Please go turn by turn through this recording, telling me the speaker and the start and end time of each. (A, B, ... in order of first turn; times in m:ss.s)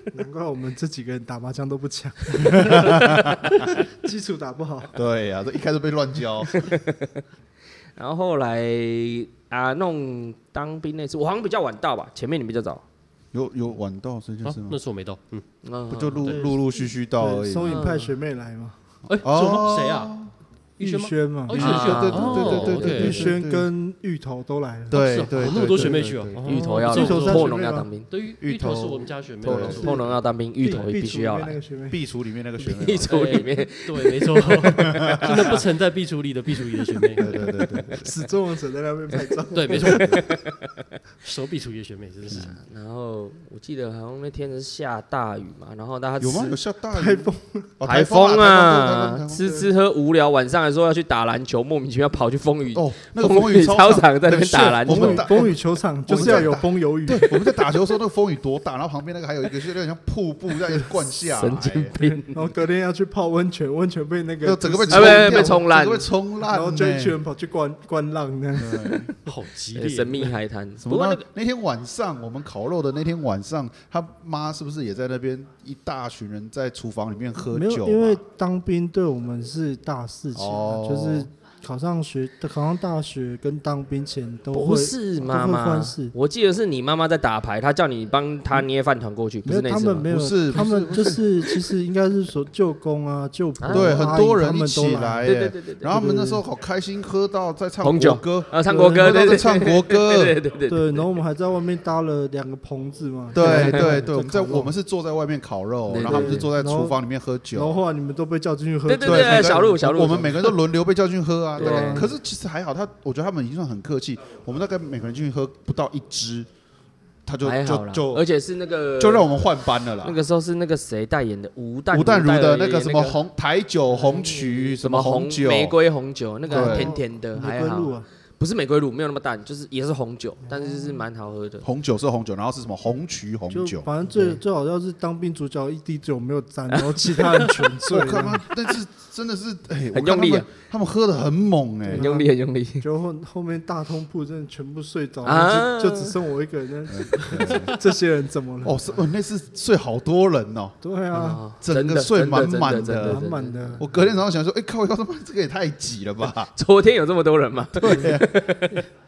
0:00.1-0:05.0 A
0:02.5-0:03.6 B
0:05.0-0:06.6 B
0:06.5-0:07.2 C
0:08.0-0:12.8 C
0:13.3-0:14.8 B
0:14.4-0:15.4 D
0:15.6-0:16.4 C
0:15.9-0:17.8 B
0:16.3-0:18.8 A
0:17.6-0:18.1 C
0:19.1-0:20.2 D
0:19.2-0:20.3 B
0:20.8-0:23.3 D
0:20.8-0:21.6 A
0:21.5-0:23.7 B
0:21.6-0:23.3 C
0:22.7-0:26.1 A
0:24.9-0:26.5 B
0:24.9-0:27.6 D
0:26.4-0:28.1 C
0:26.8-0:27.9 A
0:28.1-0:30.1 D
0:28.4-0:29.9 B
0:29.4-0:31.6 C
0:30.6-0:32.0 A
0:31.9-0:33.2 B
0:32.6-0:35.6 C
0:33.1-0:37.3 D
0:34.8-0:35.6 B
0:37.0-0:37.9 C
0:37.2-0:38.1 B
0:38.0-0:40.1 A
0:39.5-0:40.3 D
0:39.7-0:40.7 C
0:41.2-0:42.6 D
0:42.3-0:42.6 B
0:42.3-0:46.6 C
0:46.2-0:49.6 B
0:46.9-0:47.7 A
0:47.8-0:55.5 C
0:52.7-1:02.0 B
0:54.8-0:57.5 A
0:56.1-0:56.5 C
1:01.2-1:02.4 C
1:02.0-1:05.6 A
1:04.4-1:07.2 B
1:04.9-1:06.1 C
1:06.5-1:09.0 A
1:08.6-1:09.1 B
1:09.2-1:10.4 D
1:09.8-1:11.2 C
1:10.8-1:18.2 B
1:17.5-1:26.1 A
1:20.3-1:21.3 B
1:24.5-1:30.1 C
1:29.4-1:35.3 A
1:30.1-1:31.2 B
1:33.6-1:34.1 C
1:33.7-1:40.4 B
1:35.2-1:35.9 C
1:35.8-1:36.4 A
1:37.8-1:41.0 C
1:38.7-1:39.4 A
1:40.7-1:44.7 A
1:43.3-1:47.8 B
1:43.4-1:43.9 C
1:45.9-1:46.5 C
1:46.1-1:47.0 A
1:47.5-1:50.2 A
1:48.9-1:50.6 C
1:49.0-1:56.5 B
1:51.6-1:52.1 C
1:51.6-1:52.1 A
1:57.3-1:58.2 B
1:57.4-1:59.3 C
1:59.0-2:00.2 B
2:00.0-2:03.2 C
2:01.9-2:05.8 B
2:04.1-2:11.7 C
2:06.5-2:07.0 B
2:06.5-2:08.1 A
2:10.6-2:10.9 A
2:11.6-2:13.9 B
2:13.5-2:18.5 A
2:14.1-2:14.4 C
2:17.0-2:17.4 C
2:17.9-2:22.1 B
2:19.9-2:20.5 C
2:21.9-2:22.3 A
2:21.9-2:22.8 C
2:22.8-2:28.8 A
2:25.2-2:26.2 C
2:26.9-2:27.8 B
2:28.6-2:30.8 B
2:30.8-2:31.4 A
2:31.1-2:33.9 C
2:31.6-2:33.3 B
2:33.0-2:33.8 A
2:33.8-2:36.5 B
2:36.6-2:38.8 C
2:37.8-2:38.5 B
2:37.9-2:38.2 A